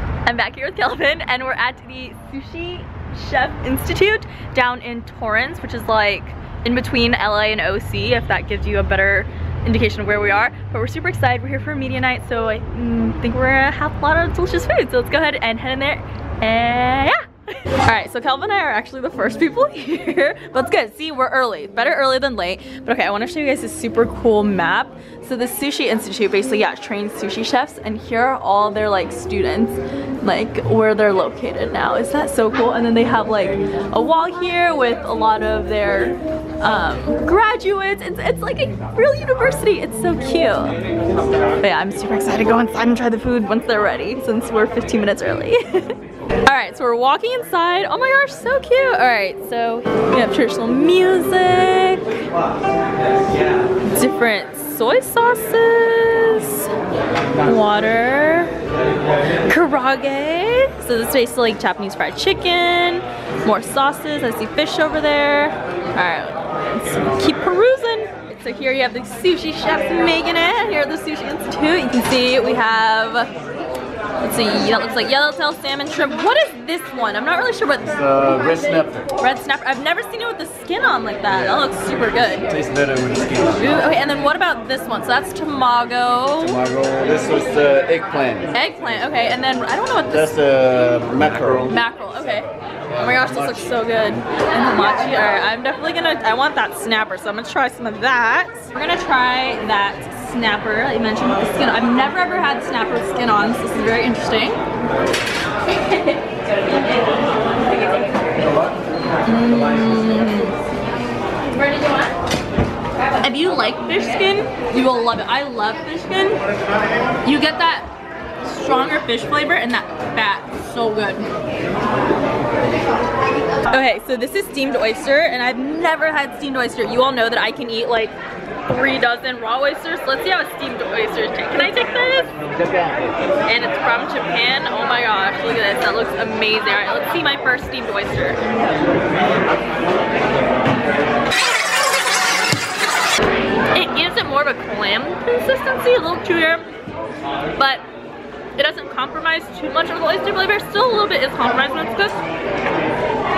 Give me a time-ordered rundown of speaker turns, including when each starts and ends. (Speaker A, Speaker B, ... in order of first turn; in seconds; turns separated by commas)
Speaker A: 0.2-40.8, Speaker A: 41.6-52.2, Speaker A: 53.9-56.7, Speaker A: 57.4-58.5, Speaker A: 59.5-73.3, Speaker A: 74.2-78.0, Speaker B: 77.9-79.1, Speaker A: 79.2-82.5, Speaker B: 82.5-83.9, Speaker A: 83.6-86.6, Speaker B: 86.4-88.7, Speaker A: 88.5-90.4, Speaker B: 90.1-91.8, Speaker A: 91.7-104.6, Speaker B: 93.0-93.6, Speaker A: 109.2-110.6, Speaker A: 113.2-116.4, Speaker A: 117.2-117.9, Speaker A: 118.4-121.3, Speaker A: 123.7-132.3, Speaker B: 132.6-133.1, Speaker A: 133.4-138.4, Speaker A: 143.7-146.7, Speaker A: 147.6-147.8, Speaker A: 148.6-152.2